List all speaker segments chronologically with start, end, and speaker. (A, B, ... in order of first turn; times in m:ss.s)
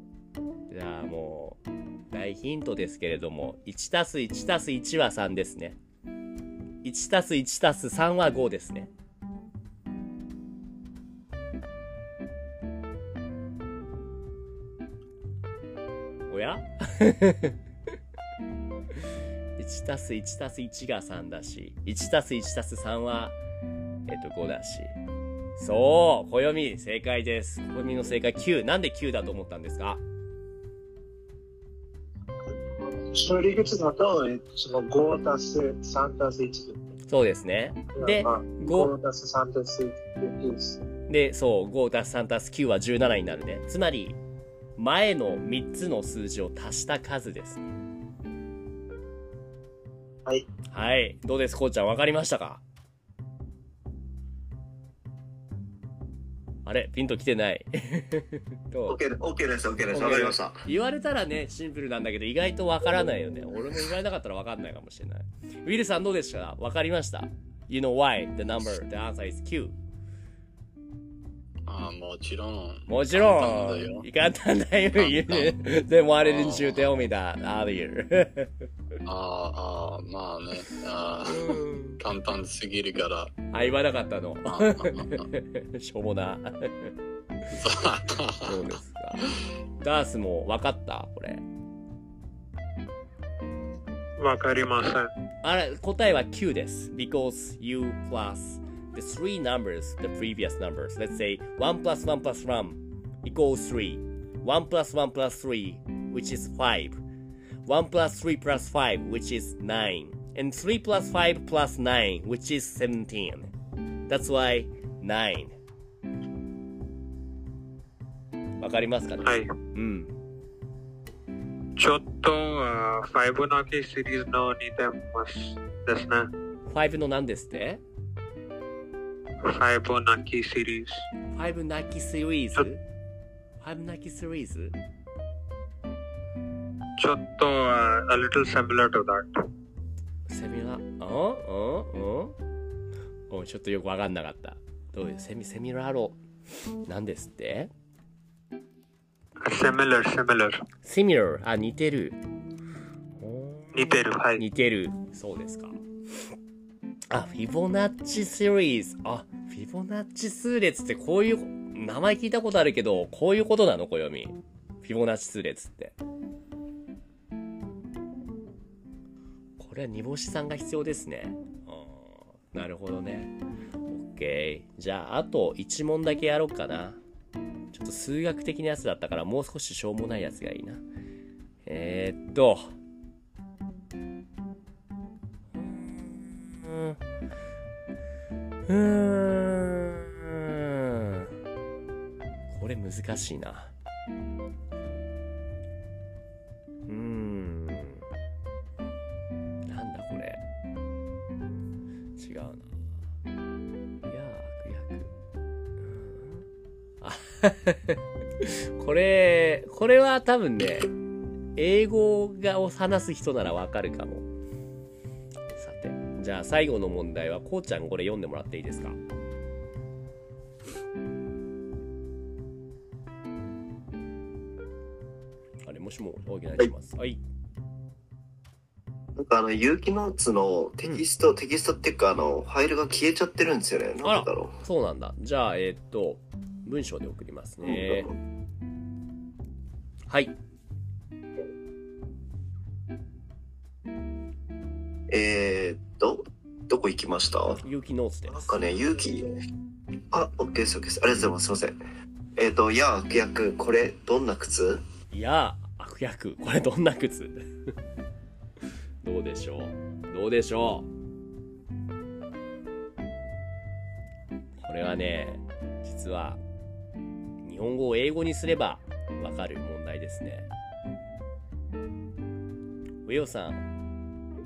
0:00.7-0:01.6 A
0:02.1-0:05.8 A
0:06.8-0:08.9 A
0:16.3-0:17.6 A
0:19.6-0:23.4 A
0:24.1-0:25.0 A
0:25.6-0:30.0 A
0:32.9-0:36.8 B
0:37.1-0:38.9 A
0:38.0-0:40.8 B
0:41.1-0:44.2 A
0:44.8-0:47.7 A
0:50.7-0:52.6 A
0:56.7-0:59.0 A
0:58.9-1:00.6 C
0:59.9-1:09.8 A
1:11.7-1:14.1 D
1:12.9-1:18.6 A
1:15.0-1:15.6 D
1:16.2-1:17.1 D
1:19.1-1:23.4 D
1:21.3-1:22.0 A
1:23.5-1:26.9 A
1:24.5-1:25.3 D
1:27.6-1:28.7 D
1:28.4-1:31.4 A
1:34.2-1:35.1 E
1:35.4-1:47.0 A
1:47.6-1:53.5 A
1:54.1-1:55.6 A
1:58.6-2:00.1 A
1:59.2-1:59.5 E
2:01.8-2:06.3 E
2:06.7-2:07.8 A
2:09.4-2:11.1 E
2:11.3-2:12.8 A
2:13.6-2:14.8 A
2:17.0-2:19.4 E
2:20.3-2:22.3 A
2:23.3-2:26.2 A
2:26.9-2:27.7 A
2:29.4-2:30.6 E
2:30.8-2:32.2 A
2:33.2-2:35.8 A
2:33.8-2:34.4 E
2:37.1-2:46.0 A
2:49.6-2:53.4 A
2:53.9-2:57.0 A
2:57.7-3:00.8 A
3:01.7-3:02.7 A
3:05.6-3:07.0 A
3:08.7-3:11.3 A
3:12.5-3:13.7 A
3:16.9-3:18.0 A
3:19.6-3:20.4 A
3:22.2-3:22.7 A
3:24.1-3:25.1 A
3:25.8-3:26.4 A
3:27.0-3:30.9 A
3:31.6-3:34.3 A
3:35.6-3:39.0 A
3:45.6-3:47.2 A
3:49.2-3:54.6 C
3:54.0-3:58.1 A
3:57.6-3:58.1 C
4:00.1-4:00.3 A
4:05.1-4:07.6 C
4:07.6-4:08.6 A
4:08.3-4:09.4 C
4:10.1-4:11.8 C
4:12.4-4:14.8 C
4:15.1-4:17.4 A
4:19.0-4:20.9 A
4:24.6-4:26.4 A
4:27.4-4:30.5 A
4:33.0-4:33.6 A